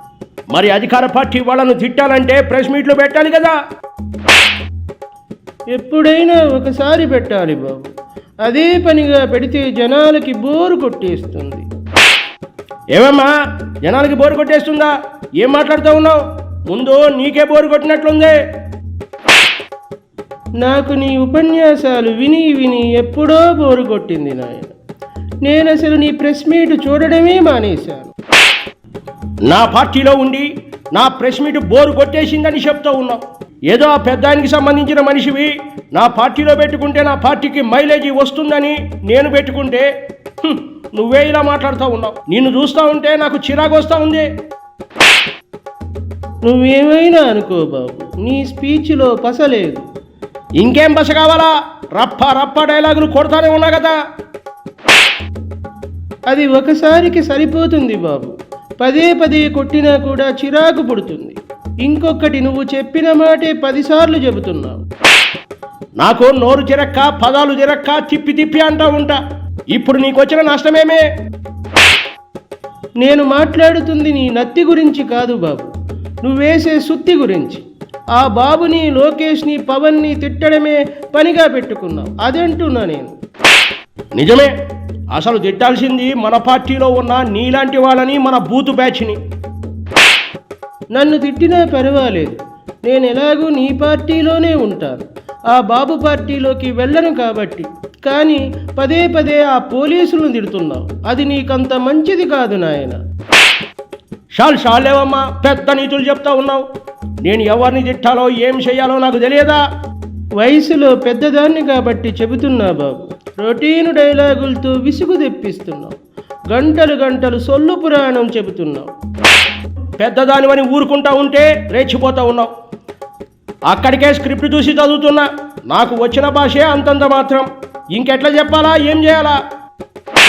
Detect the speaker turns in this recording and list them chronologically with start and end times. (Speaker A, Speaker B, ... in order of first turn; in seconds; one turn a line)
Speaker A: 0.5-3.6
Speaker B: 5.8-7.9
Speaker B: 8.4-11.7
Speaker A: 12.9-13.3
Speaker A: 13.8-18.4
Speaker B: 20.6-24.7
Speaker B: 25.4-28.1
Speaker A: 29.5-39.9
Speaker A: 40.4-44.3
Speaker B: 46.4-49.9
Speaker A: 50.6-54.0
Speaker B: 56.3-64.8
Speaker A: 66.0-69.2
Speaker A: 69.7-71.0
Speaker B: 73.0-75.7
Speaker B: 76.2-77.6
Speaker B: 78.2-83.1
Speaker A: 84.2-84.5
Speaker A: 85.1-89.2
Speaker B: 91.0-103.0
Speaker A: 104.3-106.7
Speaker A: 107.2-109.6
Speaker B: 110.4-116.0
Speaker B: 116.5-118.9
Speaker A: 120.0-122.5
Speaker A: 123.7-129.4